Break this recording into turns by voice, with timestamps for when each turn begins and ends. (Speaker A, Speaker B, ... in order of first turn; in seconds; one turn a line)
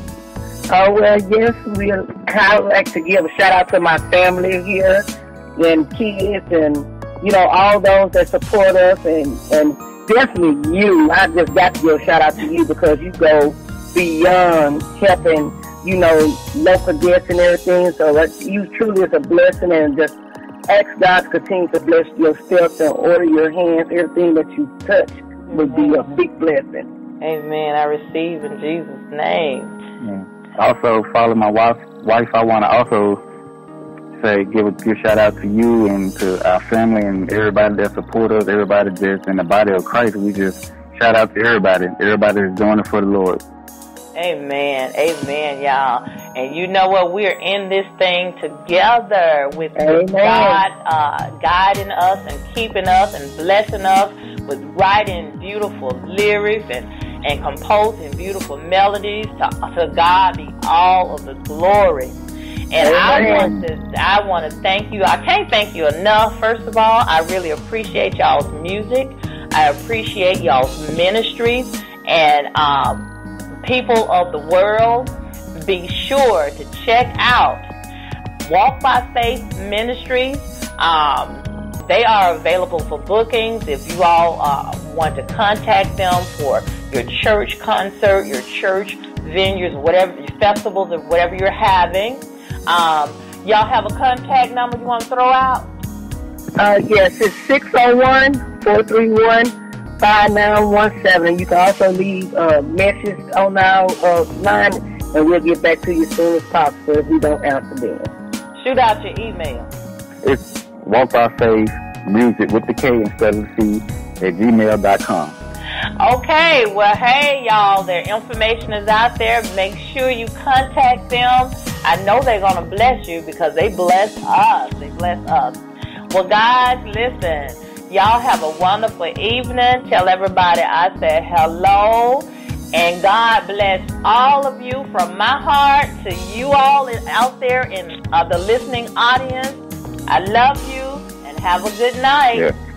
Speaker A: 0.7-5.0
Speaker A: 5.6-20.2
Speaker A: 20.7-26.9
Speaker B: 25.5-26.1
Speaker B: 27.2-29.8
Speaker C: 30.0-33.2
Speaker C: 34.2-43.4
Speaker B: 44.1-62.2
Speaker A: 49.8-50.6
Speaker B: 62.7-73.1
Speaker A: 62.8-63.5
Speaker C: 62.9-63.5
Speaker B: 73.6-77.7
Speaker B: 78.4-95.7
Speaker A: 96.6-108.1
Speaker B: 108.6-109.7
Speaker C: 110.2-115.3
Speaker B: 116.0-125.6
Speaker B: 126.1-142.5